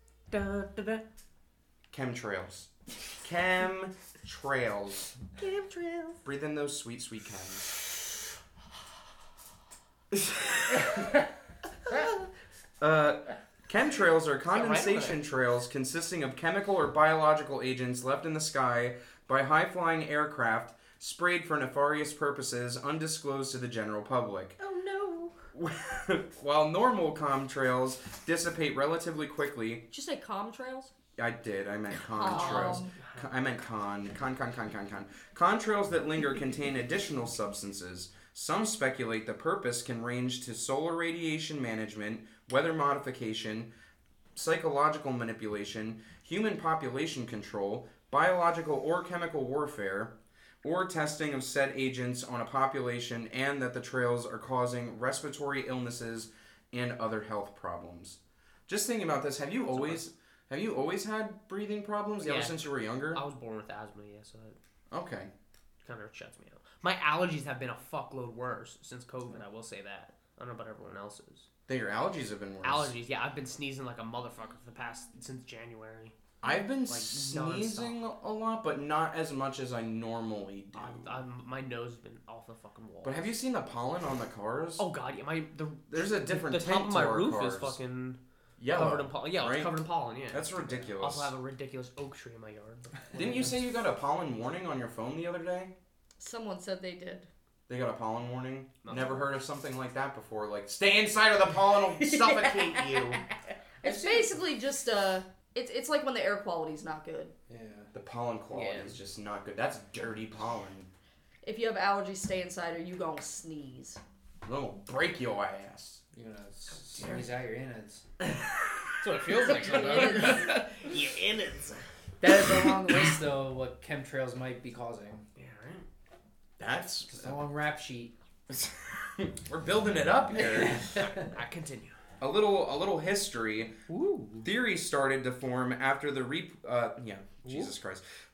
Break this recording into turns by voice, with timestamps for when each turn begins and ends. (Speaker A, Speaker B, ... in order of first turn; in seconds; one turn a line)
Speaker A: 0.3-1.0
Speaker B: 1.9-2.7
Speaker B: 3.2-5.1
Speaker A: 5.4-6.2
Speaker B: 6.2-7.6
Speaker B: 10.1-11.2
Speaker A: 11.9-12.2
Speaker B: 12.8-24.6
Speaker A: 14.5-15.2
Speaker A: 24.6-25.3
Speaker B: 25.5-29.8
Speaker C: 29.9-30.9
Speaker B: 31.2-43.7
Speaker C: 32.0-32.9
Speaker A: 32.3-33.3
Speaker B: 44.3-63.2
Speaker A: 59.7-60.0
Speaker A: 62.2-64.6
Speaker B: 64.9-65.3
Speaker A: 65.8-71.5
Speaker B: 71.7-72.9
Speaker A: 72.6-78.0
Speaker B: 76.4-81.2
Speaker A: 80.7-83.3
Speaker B: 83.0-84.9
Speaker A: 84.8-88.2
Speaker B: 85.9-87.8
Speaker B: 88.6-89.7
Speaker A: 88.7-93.3
Speaker B: 90.3-91.3
Speaker D: 90.6-90.9
Speaker D: 93.1-93.4
Speaker B: 93.1-95.7
Speaker C: 96.2-97.3
Speaker B: 97.7-103.2
Speaker A: 98.8-99.3
Speaker A: 101.9-103.3
Speaker C: 103.8-107.3
Speaker D: 103.8-104.4
Speaker D: 107.5-107.9
Speaker B: 107.9-110.9
Speaker A: 108.5-109.0
Speaker C: 111.4-114.0
Speaker B: 114.4-116.0
Speaker D: 116.1-118.0
Speaker A: 119.0-121.8
Speaker B: 119.5-120.4
Speaker C: 119.6-120.5
Speaker D: 122.2-125.2
Speaker A: 125.3-125.9
Speaker B: 126.6-127.3
Speaker D: 127.1-128.1
Speaker B: 128.5-131.0
Speaker D: 130.3-131.3
Speaker A: 130.8-131.9
Speaker B: 132.2-133.7
Speaker A: 133.9-134.5
Speaker B: 134.4-138.0
Speaker A: 137.4-137.7